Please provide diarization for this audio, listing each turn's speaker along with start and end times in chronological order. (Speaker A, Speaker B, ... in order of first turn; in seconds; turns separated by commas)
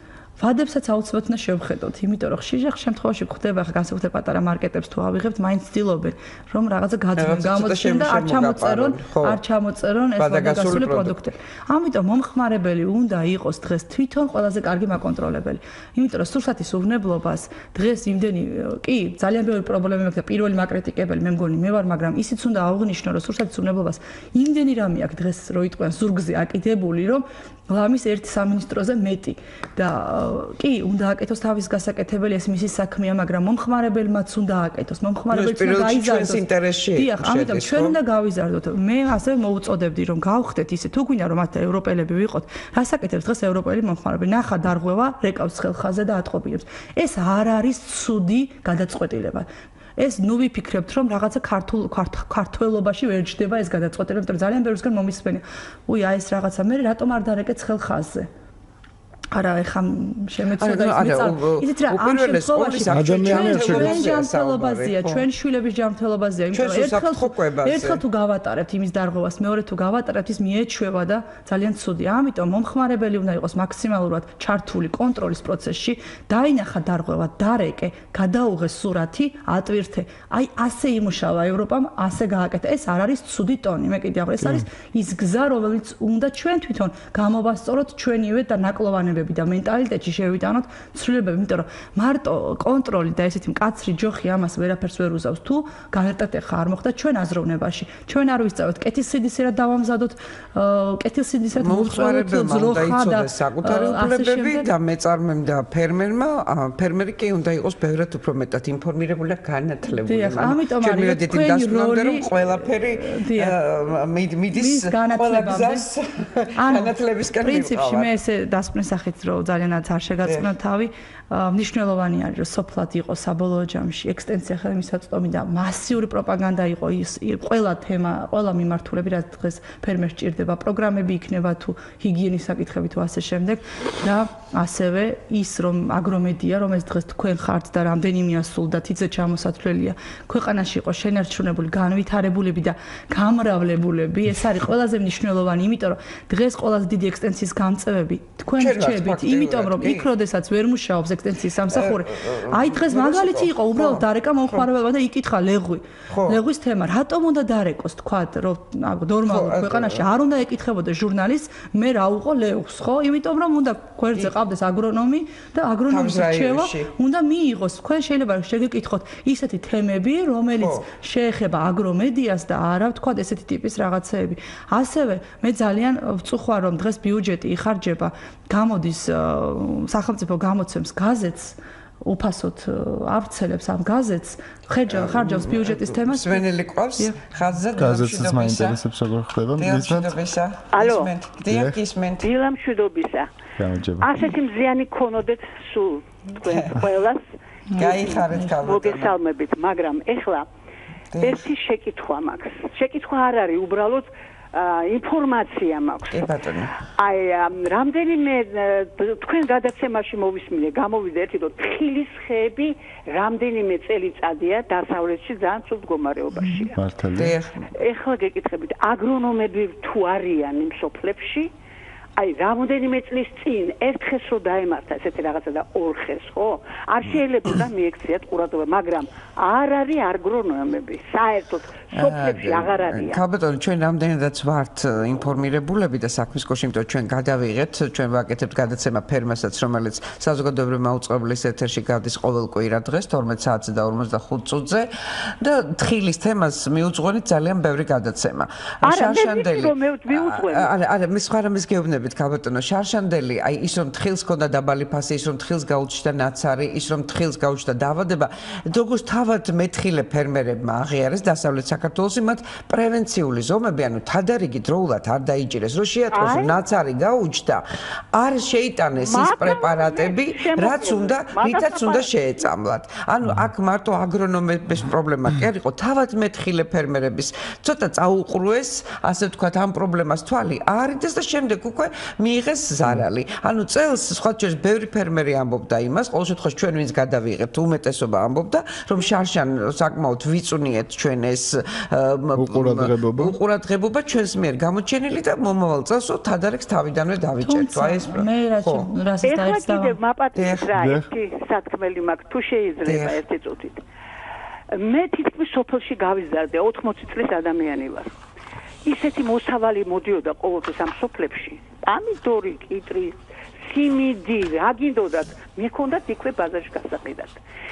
Speaker A: 0.4-36.4, Speaker B: 7.2-9.4, Speaker B: 10.2-11.1, Speaker B: 35.3-38.0, Speaker A: 36.9-49.5, Speaker A: 50.0-58.3, Speaker A: 59.3-104.7, Speaker B: 60.6-65.2, Speaker C: 62.9-64.1, Speaker B: 66.5-68.0, Speaker B: 101.5-118.1, Speaker A: 109.9-113.6, Speaker A: 114.5-115.8, Speaker A: 116.6-187.2, Speaker B: 148.6-150.1, Speaker B: 151.7-154.7, Speaker B: 156.1-156.4, Speaker B: 159.2-160.0, Speaker B: 165.9-166.9, Speaker B: 170.6-170.8, Speaker B: 184.9-188.8, Speaker C: 187.7-190.2, Speaker B: 189.6-192.3, Speaker D: 190.7-191.1, Speaker C: 191.5-191.8, Speaker D: 192.2-193.3, Speaker C: 193.6-194.2, Speaker D: 194.0-197.2, Speaker B: 196.4-196.8, Speaker B: 197.8-199.1, Speaker D: 197.8-200.4, Speaker B: 201.1-201.5, Speaker D: 201.2-206.3, Speaker B: 206.1-206.7, Speaker D: 207.0-216.8, Speaker C: 216.7-217.3, Speaker B: 217.1-217.6, Speaker D: 217.7-221.5, Speaker D: 222.2-233.2, Speaker B: 231.9-298.9, Speaker D: 248.8-250.7, Speaker D: 266.1-266.5, Speaker D: 269.0-272.1, Speaker C: 292.4-293.4, Speaker A: 297.4-300.0, Speaker D: 299.2-303.8, Speaker B: 300.4-300.7, Speaker C: 300.7-301.1, Speaker B: 302.8-303.2, Speaker D: 304.7-308.1, Speaker D: 308.9-317.4